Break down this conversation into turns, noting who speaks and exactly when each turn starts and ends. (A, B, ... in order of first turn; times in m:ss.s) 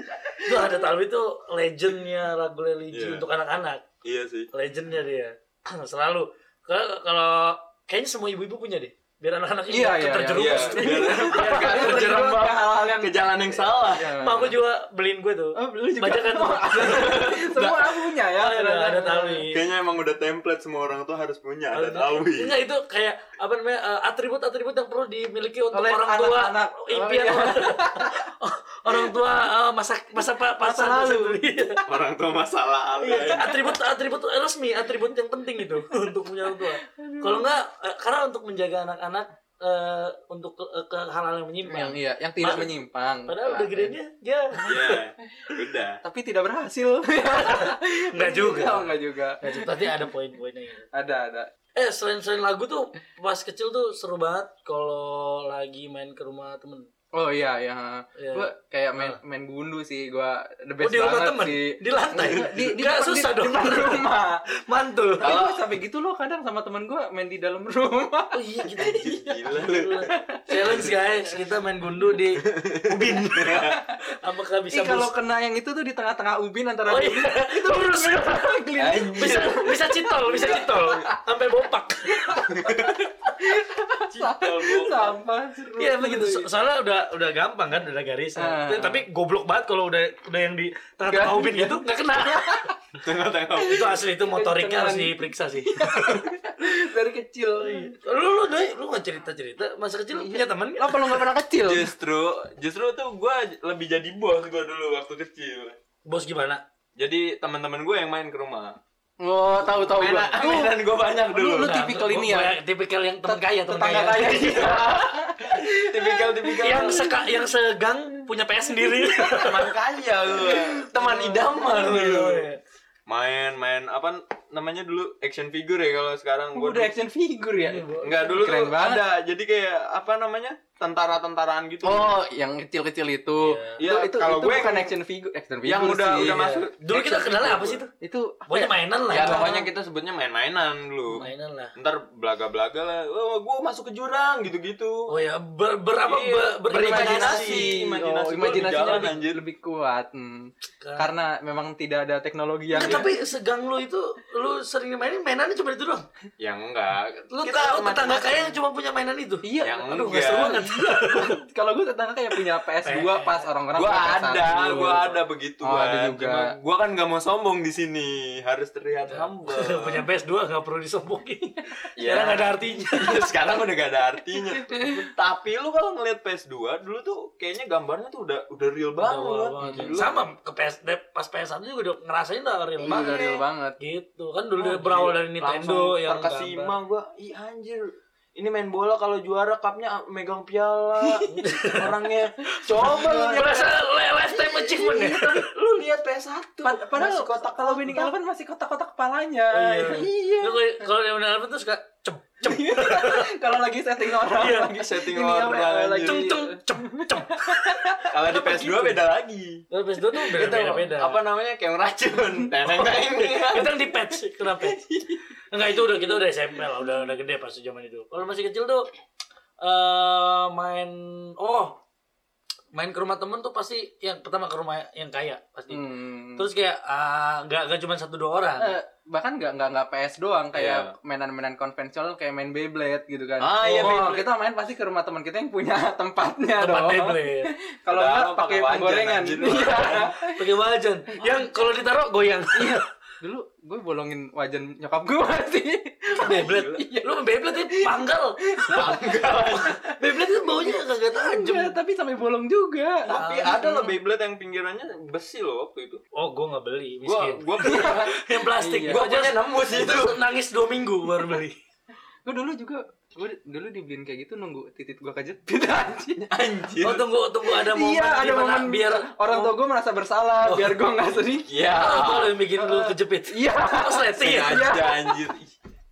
0:00.4-0:03.8 A
0:00.6-0:00.8 B
0:02.9-0:03.2 C
0:04.0-0:04.5 C
0:04.5-0:12.1 A
0:09.7-0:14.6 B
0:10.3-0:14.4 C
0:14.2-0:17.3 A
0:15.6-0:19.4 B
0:16.9-0:18.0 C
0:18.3-0:19.6 A
0:19.5-0:22.5 C
0:21.7-0:31.8 A
0:25.7-0:28.2 B
0:30.6-0:31.8 B
0:31.8-0:33.5 C
0:33.0-0:42.7 A
0:33.1-0:33.6 B
0:36.5-0:37.5 B
0:41.6-0:44.0 B
0:42.4-0:42.7 C
0:43.3-0:45.0 A
0:44.7-0:46.0 C
0:46.0-0:50.0 B
0:47.3-0:50.9 A
0:50.9-0:51.5 B
0:51.8-0:56.8 A
0:57.2-1:04.4 B
0:58.2-0:59.2 A
1:00.8-1:04.1 A
1:04.7-1:05.3 A
1:05.2-1:11.1 B
1:05.2-1:05.7 C
1:08.3-1:15.1 A
1:08.8-1:10.1 C
1:12.4-1:13.8 C
1:14.7-1:19.7 B
1:16.9-1:23.0 A
1:18.8-1:21.1 C
1:22.1-1:26.5 B
1:22.5-1:23.0 C
1:24.1-1:25.2 C
1:25.8-1:32.7 A
1:28.4-1:29.0 B
1:31.1-1:32.7 B
1:33.0-1:34.0 C
1:33.6-1:38.0 B
1:33.7-1:36.3 A
1:37.6-1:41.3 A
1:40.1-1:41.9 B
1:41.6-1:45.8 C
1:46.0-1:46.6 A
1:47.0-1:48.8 C
1:49.2-1:52.5 B
1:49.6-1:51.8 C
1:51.5-1:54.8 A
1:53.2-1:57.3 B
1:54.2-1:57.2 C
1:56.6-1:59.7 A
1:58.8-1:59.4 B
1:59.2-2:02.4 C
2:00.3-2:00.9 B
2:01.0-2:02.6 A
2:03.1-2:06.9 C
2:06.5-2:09.0 B
2:07.6-2:08.2 A
2:08.0-2:12.1 C
2:11.8-2:16.4 B
2:13.4-2:13.8 A
2:13.8-2:14.9 C
2:15.6-2:17.8 C
2:16.2-2:17.9 A
2:18.0-2:19.7 B
2:18.5-2:19.5 A
2:19.1-2:25.1 C
2:21.1-2:21.7 A
2:25.1-2:27.8 A
2:26.0-2:29.4 C
2:26.7-2:33.1 B
2:28.4-2:29.1 A
2:30.8-2:31.1 A
2:32.7-2:36.0 A
2:32.8-2:33.0 C
2:36.4-2:38.6 C
2:37.3-2:41.4 A
2:39.4-2:46.5 B
2:39.6-2:40.6 C
2:42.8-2:43.4 A
2:43.7-2:50.0 C
2:49.1-2:53.3 A
2:52.0-3:00.3 C
2:54.6-2:55.1 B
2:59.0-3:03.2 A
2:59.6-3:00.0 B
3:02.8-3:03.8 B
3:02.8-3:03.4 C
3:03.8-3:06.8 A
3:04.6-3:13.7 C
3:11.0-3:11.4 B
3:11.3-3:11.9 A
3:12.6-3:13.7 B
3:12.8-3:15.8 A
3:14.2-3:15.5 B
3:15.7-3:18.1 C
3:16.6-3:20.6 B
3:19.5-3:23.3 A
3:22.4-3:28.0 B
3:24.2-3:24.7 A
3:24.7-3:26.3 C
3:26.0-3:29.0 A
3:28.1-3:29.6 C
3:29.7-3:31.2 A
3:30.3-3:33.7 C
3:32.6-3:34.8 A
3:35.5-3:38.9 A
3:39.6-3:41.8 A
3:42.7-3:45.8 A
3:45.7-3:46.5 B
3:46.3-3:48.7 A
3:48.6-4:00.4 B
3:50.5-3:50.9 C
3:53.4-3:54.3 C
3:56.6-3:57.5 A
3:57.9-4:00.0 C
3:59.4-4:02.8 A
4:02.5-4:13.1 B
4:06.1-4:09.0 A
4:08.7-4:09.8 C
4:09.9-4:11.8 A
4:13.1-4:16.0 C
4:13.1-4:13.9 A
4:16.1-4:21.6 A
4:17.0-4:18.1 C
4:17.6-4:19.0 B
4:18.9-4:20.2 C
4:22.2-4:26.2 B
4:26.2-4:27.0 C
4:26.8-4:29.6 A
4:27.5-4:31.6 B
4:30.4-4:30.8 A
4:31.5-4:32.4 C
4:31.7-4:34.7 A
4:32.6-4:35.2 B
4:34.2-4:35.5 C